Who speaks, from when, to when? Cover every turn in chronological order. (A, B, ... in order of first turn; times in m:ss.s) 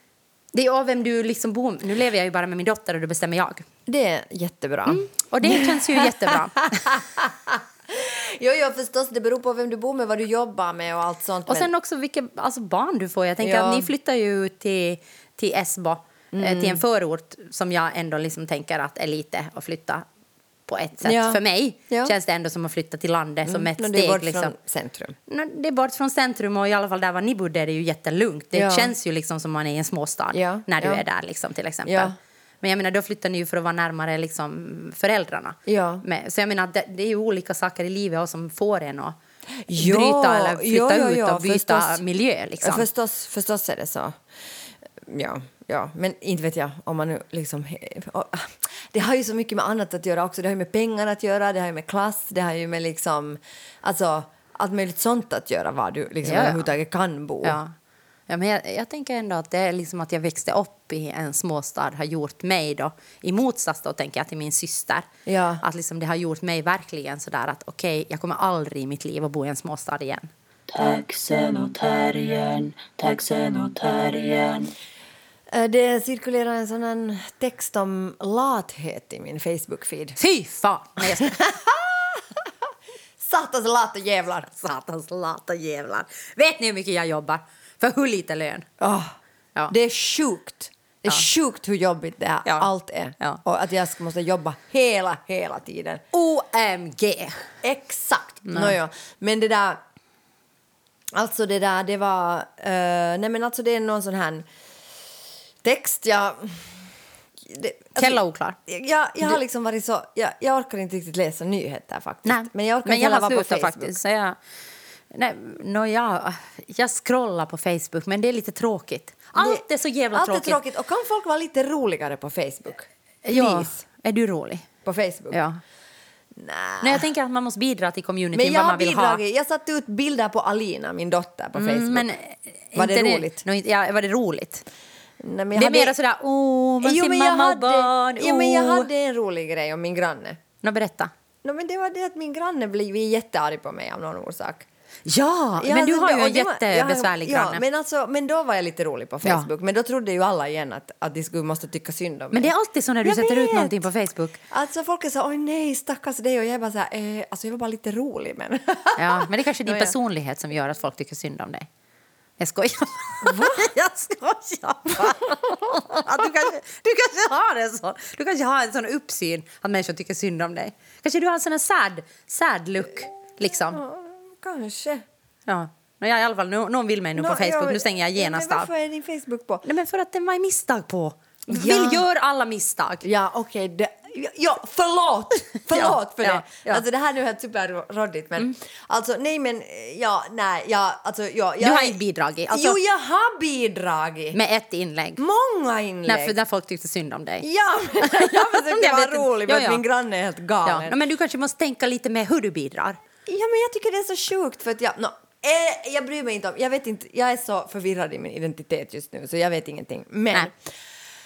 0:00.5-0:03.7 A
0:03.9-0:11.7 B
0:04.9-0:06.9 A
0:11.5-0:20.0 A
0:13.4-0:13.9 B
0:16.3-0:16.8 B
0:20.7-0:24.5 A
0:21.0-0:22.1 B
0:23.5-0:25.2 B
0:25.3-0:39.2 A
0:28.5-0:28.9 B
0:30.3-0:31.0 B
0:31.9-0:32.1 B
0:35.7-0:36.0 B
0:39.7-0:42.0 B
0:39.8-0:42.9 A
0:42.6-0:44.2 B
0:45.0-0:57.6 B
0:56.2-0:56.7 A
0:57.4-0:57.7 A
0:58.3-1:05.1 A
1:05.3-1:05.6 B
1:05.6-1:10.3 A
1:10.7-1:14.7 C
1:15.5-1:20.2 B
1:20.2-1:21.4 A
1:21.0-1:22.5 B
1:23.2-1:24.5 B
1:24.6-1:28.7 A
1:28.8-1:29.2 B
1:29.7-1:36.0 B
1:32.4-1:33.4 A
1:36.1-1:37.5 A
1:37.6-1:39.8 B
1:38.5-1:38.8 A
1:41.2-1:44.5 B
1:45.6-1:46.8 B
1:47.5-1:54.0 B
1:48.0-1:48.6 A
1:52.3-1:54.4 A
1:55.1-2:00.6 A
1:59.4-2:03.8 B
2:03.2-2:04.7 A
2:04.8-2:05.4 B
2:05.3-2:05.6 A
2:06.4-2:07.1 B
2:06.8-2:09.2 A
2:08.4-2:12.0 B
2:11.6-2:14.6 A
2:12.8-2:13.4 B
2:15.2-2:16.0 B
2:15.6-2:18.9 A
2:16.8-2:20.4 B
2:20.6-2:21.1 A
2:21.4-2:24.7 B
2:25.1-2:27.6 A
2:25.6-2:32.5 B
2:29.2-2:29.5 A
2:32.3-2:34.4 A
2:33.0-2:33.8 B
2:34.5-2:39.9 B
2:39.0-2:41.7 A
2:42.4-2:53.8 A
2:43.2-2:43.7 B
2:53.5-2:55.0 B
2:55.5-2:58.7 A
2:57.2-2:59.6 B
2:59.6-3:03.0 A
3:01.5-3:02.0 B
3:03.0-3:12.0 B
3:05.7-3:06.8 A
3:11.6-3:12.8 A
3:12.5-3:14.4 B
3:14.3-3:15.2 A
3:15.2-3:16.4 B
3:16.1-3:17.5 A
3:17.4-3:21.0 B
3:18.0-3:19.8 A
3:20.6-3:23.0 A
3:23.3-3:30.6 B